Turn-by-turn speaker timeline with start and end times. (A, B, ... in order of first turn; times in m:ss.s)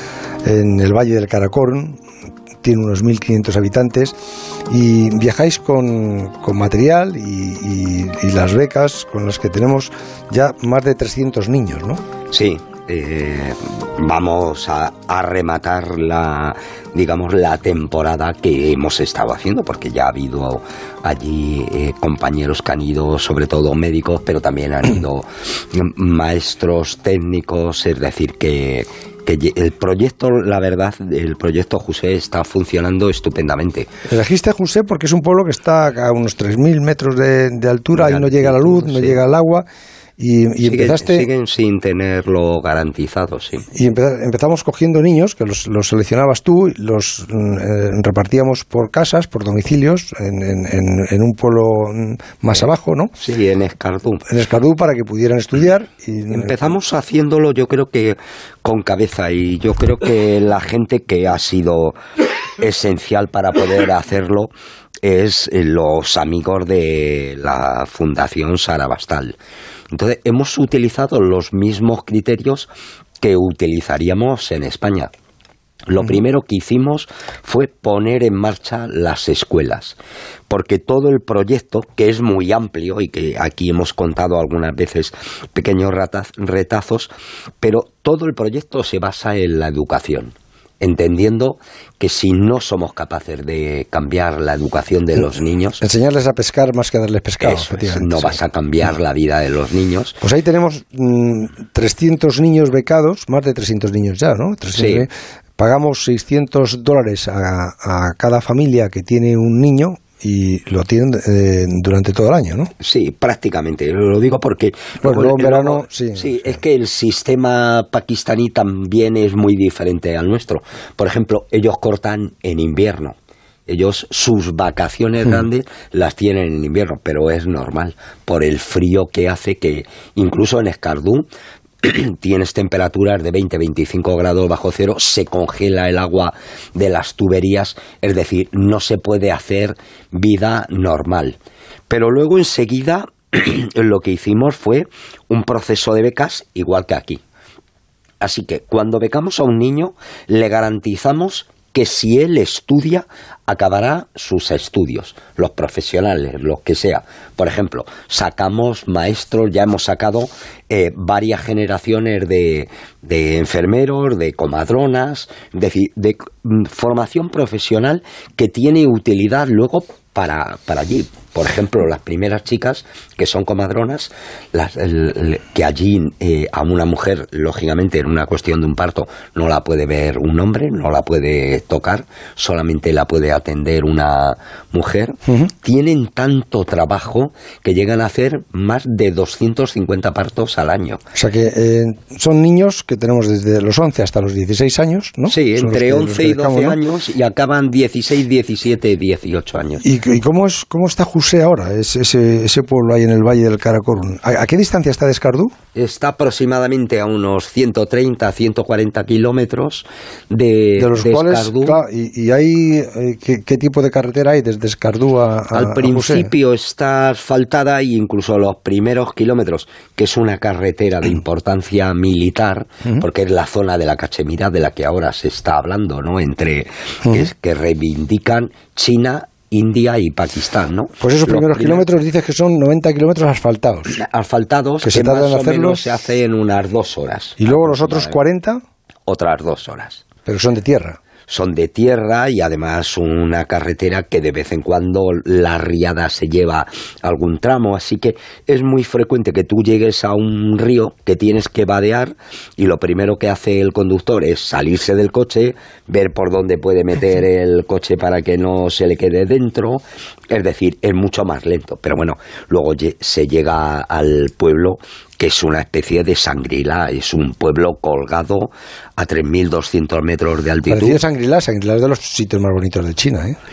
0:00.4-0:02.0 A
0:02.6-0:04.1 A
0:04.7-0:12.0 A
0:12.3-0:33.9 B
0:34.1-0:39.6 A
0:38.0-0:39.2 B
0:40.2-0:41.3 A
0:40.6-0:43.7 B
0:43.7-0:53.1 A
0:52.5-0:54.2 B
0:54.3-0:56.8 A
0:56.3-1:02.0 B
1:02.6-1:04.5 B
1:05.0-1:09.4 B
1:09.9-1:15.1 B
1:15.9-1:20.0 B
1:20.5-1:35.8 B
1:35.8-1:38.4 A
1:37.4-1:40.2 B
1:40.2-1:52.7 A
1:44.7-1:45.1 B
1:52.8-2:03.2 B
1:55.0-1:56.6 A
2:03.7-2:11.2 B
2:11.8-2:21.4 B
2:21.9-2:27.2 B
2:28.2-3:11.0 B
3:11.1-3:16.8 A
3:15.3-3:19.8 B
3:19.8-3:25.5 A
3:25.8-3:31.8 B
3:30.8-3:36.3 A
3:35.5-3:51.8 B
3:51.0-3:54.0 A
3:53.9-3:58.2 B
3:54.8-3:55.9 A
3:57.4-3:58.6 A
3:59.1-4:00.0 B
4:00.2-4:01.0 A
4:01.3-4:31.0 B
4:30.7-4:33.4 A